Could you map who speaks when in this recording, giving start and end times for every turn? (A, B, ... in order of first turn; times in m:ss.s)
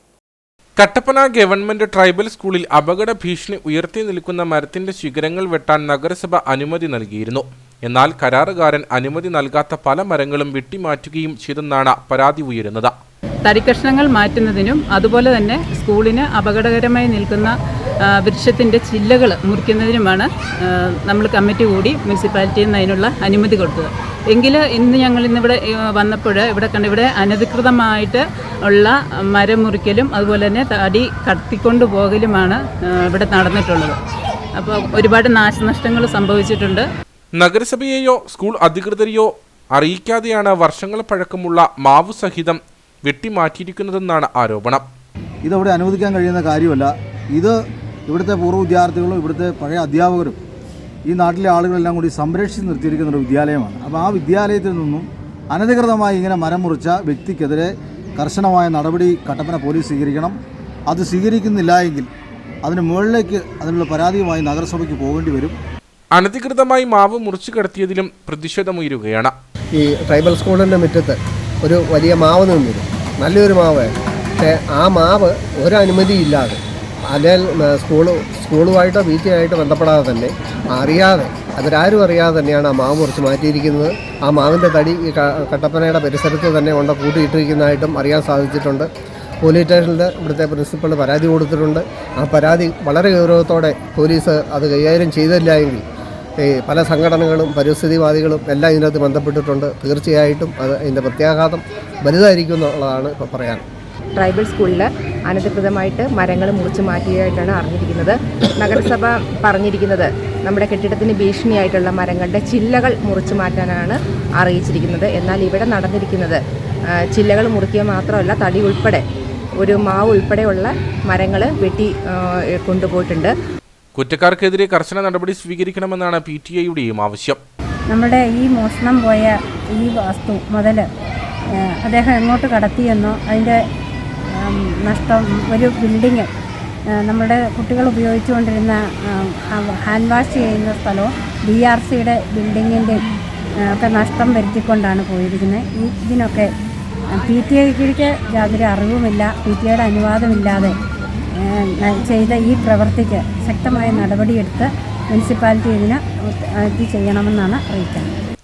0:00.8-0:12.9 A
0:13.4-0:17.5 B
0:18.1-0:34.0 B
0:34.6-0:36.8 B
0:37.3-0:44.8 A
0:45.4-0:50.4 C
0:51.0-1:00.4 C
1:00.9-1:02.1 C
1:02.6-1:05.6 C
1:06.1-1:09.3 A
1:09.7-1:16.6 D
1:17.1-1:28.9 D
1:29.4-1:35.8 D
1:36.4-1:43.6 D
1:44.1-1:56.4 E
1:57.1-1:59.0 E
1:59.6-2:03.3 E
2:03.9-2:07.4 A
2:07.9-2:10.8 F
2:11.8-2:13.6 F
2:14.4-2:16.3 F
2:17.0-2:23.0 F
2:23.6-2:26.5 F
2:27.2-2:30.7 F
2:31.4-2:38.1 F